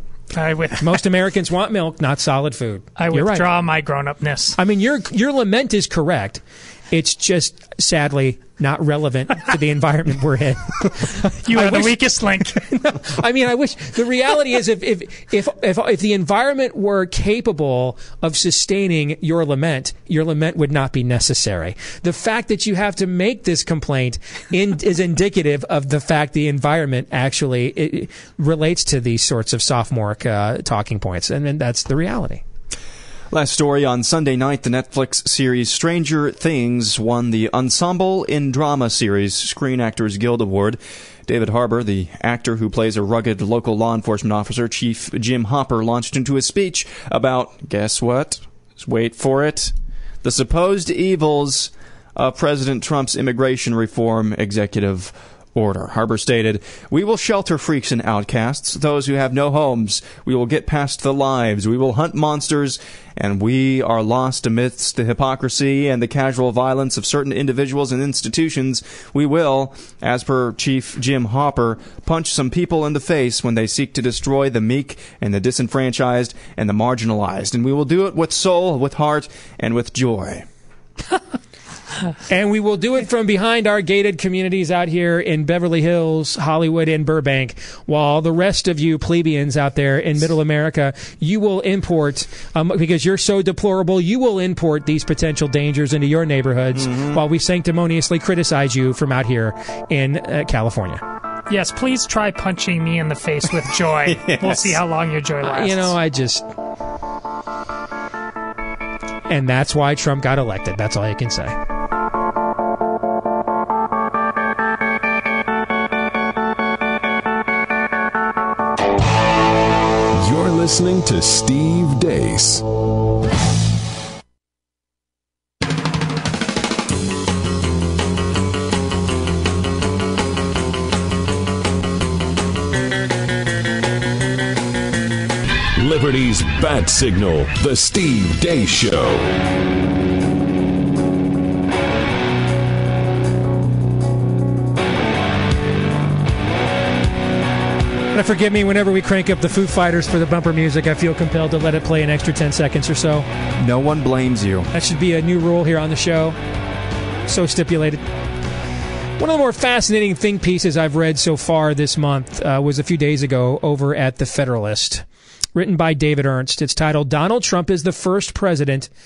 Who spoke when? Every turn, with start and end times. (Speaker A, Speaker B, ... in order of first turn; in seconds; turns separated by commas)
Speaker A: 0.3-1.0, Speaker B: 0.8-3.5, Speaker A: 3.0-4.6, Speaker B: 4.6-32.4, Speaker A: 11.3-12.6, Speaker C: 33.3-80.5, Speaker B: 82.3-101.0, Speaker C: 96.9-97.2, Speaker A: 101.5-106.0, Speaker C: 104.1-104.8, Speaker B: 105.4-106.5, Speaker B: 109.3-111.6, Speaker D: 120.1-122.7, Speaker D: 135.8-139.3, Speaker B: 148.1-153.3, Speaker C: 153.6-154.7, Speaker B: 154.7-156.4, Speaker B: 157.3-158.0, Speaker B: 159.2-165.0, Speaker B: 165.6-168.9